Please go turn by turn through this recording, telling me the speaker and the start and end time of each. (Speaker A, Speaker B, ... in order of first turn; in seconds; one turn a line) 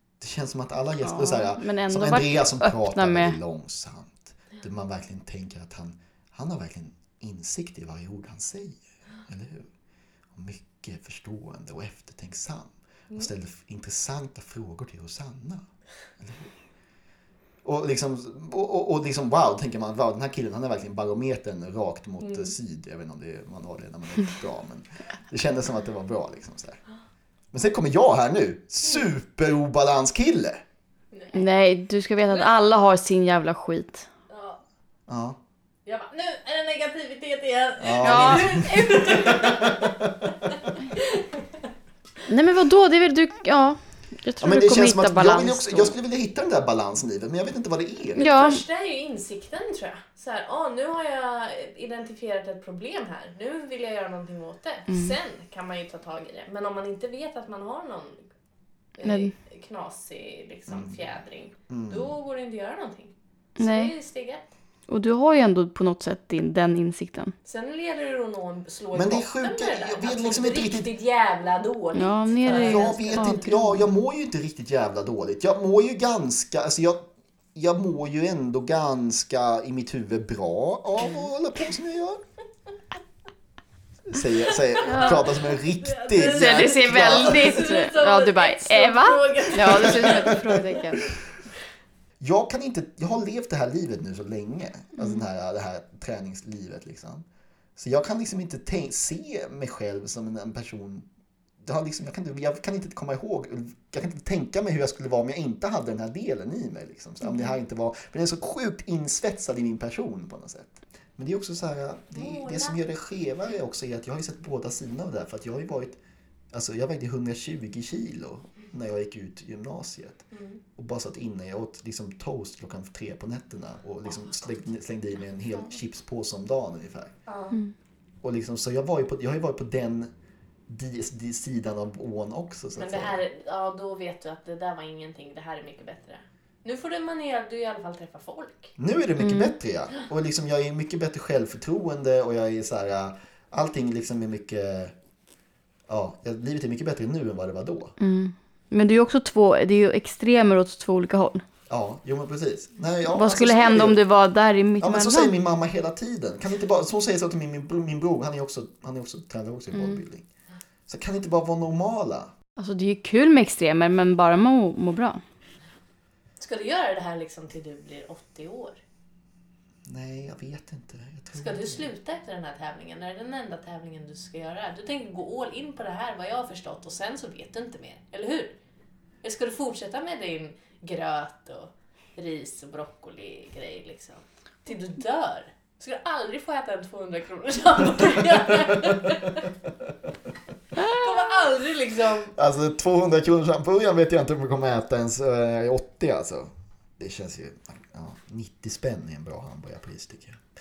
Speaker A: 0.2-9.7
Speaker B: 1.0-3.4
Speaker A: 10.3-15.7
Speaker A: 16.2-16.5
Speaker A: 17.6-26.8
Speaker C: 22.2-22.5
Speaker A: 27.5-30.6
Speaker C: 31.1-31.5
Speaker B: 31.3-34.1
Speaker C: 34.3-34.6
Speaker A: 35.1-35.4
Speaker C: 35.9-39.9
Speaker A: 37.8-40.5
Speaker B: 38.0-38.6
Speaker C: 41.0-41.4
Speaker B: 42.3-45.9
Speaker A: 44.4-48.4
Speaker B: 48.2-48.6
Speaker C: 48.2-58.3
Speaker B: 54.9-55.1
Speaker C: 59.0-64.4
Speaker B: 59.0-59.3
Speaker A: 60.7-61.0
Speaker A: 61.7-62.1
Speaker B: 63.6-63.9
Speaker B: 64.9-67.3
Speaker C: 67.5-73.5
Speaker A: 68.9-70.9
Speaker B: 71.9-73.8
Speaker A: 72.5-82.2
Speaker A: 84.1-87.6
Speaker C: 84.8-90.6
Speaker B: 84.8-85.2
Speaker B: 86.2-91.0
Speaker A: 89.7-90.6
Speaker A: 92.2-97.2
Speaker A: 97.8-101.1
Speaker A: 101.6-116.0
Speaker C: 112.1-112.8
Speaker A: 116.5-120.2
Speaker C: 120.3-120.6
Speaker A: 120.8-127.1
Speaker C: 127.3-127.6
Speaker A: 128.2-130.1
Speaker A: 130.7-133.2
Speaker C: 132.8-138.7
Speaker A: 138.8-144.9
Speaker B: 139.2-139.5
Speaker A: 145.9-147.9
Speaker B: 148.0-151.4
Speaker A: 151.7-154.0
Speaker B: 153.1-155.4
Speaker A: 154.8-160.3
Speaker B: 159.8-160.0
Speaker A: 160.9-162.3
Speaker B: 162.6-165.2
Speaker C: 166.4-168.8
Speaker A: 169.9-171.9
Speaker C: 171.3-178.6
Speaker C: 179.2-189.5
Speaker B: 190.8-191.1
Speaker C: 190.8-192.3
Speaker A: 192.3-200.4